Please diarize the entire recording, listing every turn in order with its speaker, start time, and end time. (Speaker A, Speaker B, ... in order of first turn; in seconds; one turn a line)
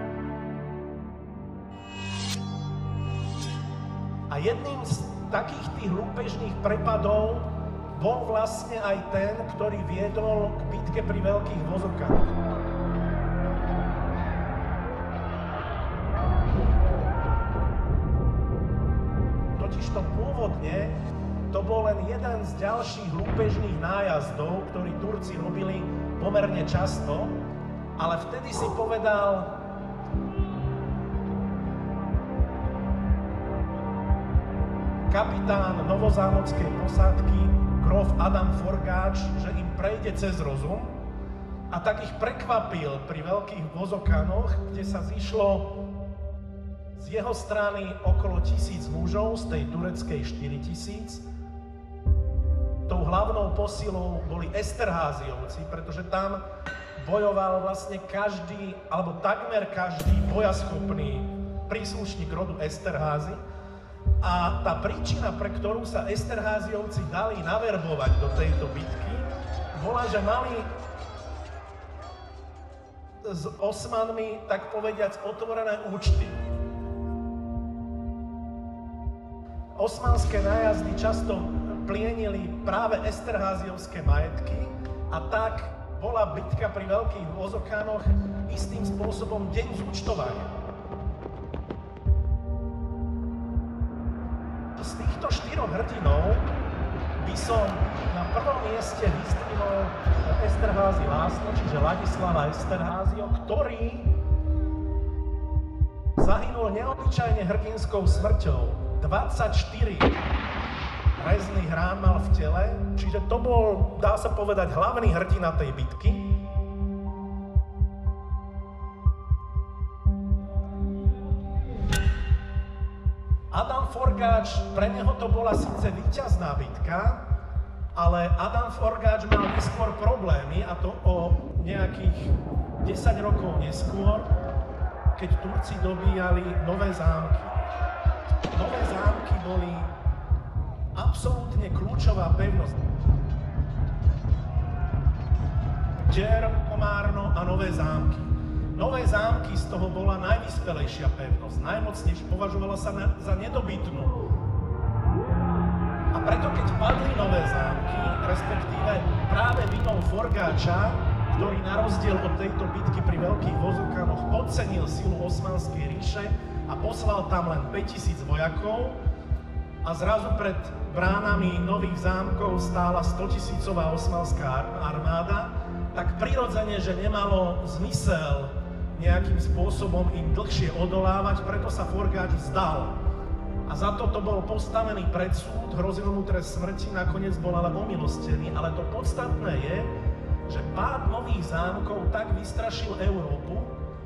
Speaker A: 4.3-12.4
Speaker A: 19.6-21.0
Speaker A: 21.5-27.4
Speaker A: 28.0-29.6
Speaker A: 35.1-41.0
Speaker A: 41.7-45.7
Speaker A: 47.0-51.2
Speaker A: 52.9-56.4
Speaker A: 57.0-63.4
Speaker A: 64.2-70.7
Speaker A: 73.2-76.4
Speaker A: 79.8-90.5
Speaker A: 94.8-96.5
Speaker A: 97.2-104.1
Speaker A: 106.2-110.2
Speaker A: 111.2-116.3
Speaker A: 123.5-127.2
Speaker A: 128.0-134.3
Speaker A: 135.2-137.6
Speaker A: 138.5-139.9
Speaker A: 140.9-142.8
Speaker A: 146.1-154.2
Speaker A: 156.1-169.0
Speaker A: 169.8-183.0
Speaker A: 183.7-189.9
Speaker A: 190.5-193.8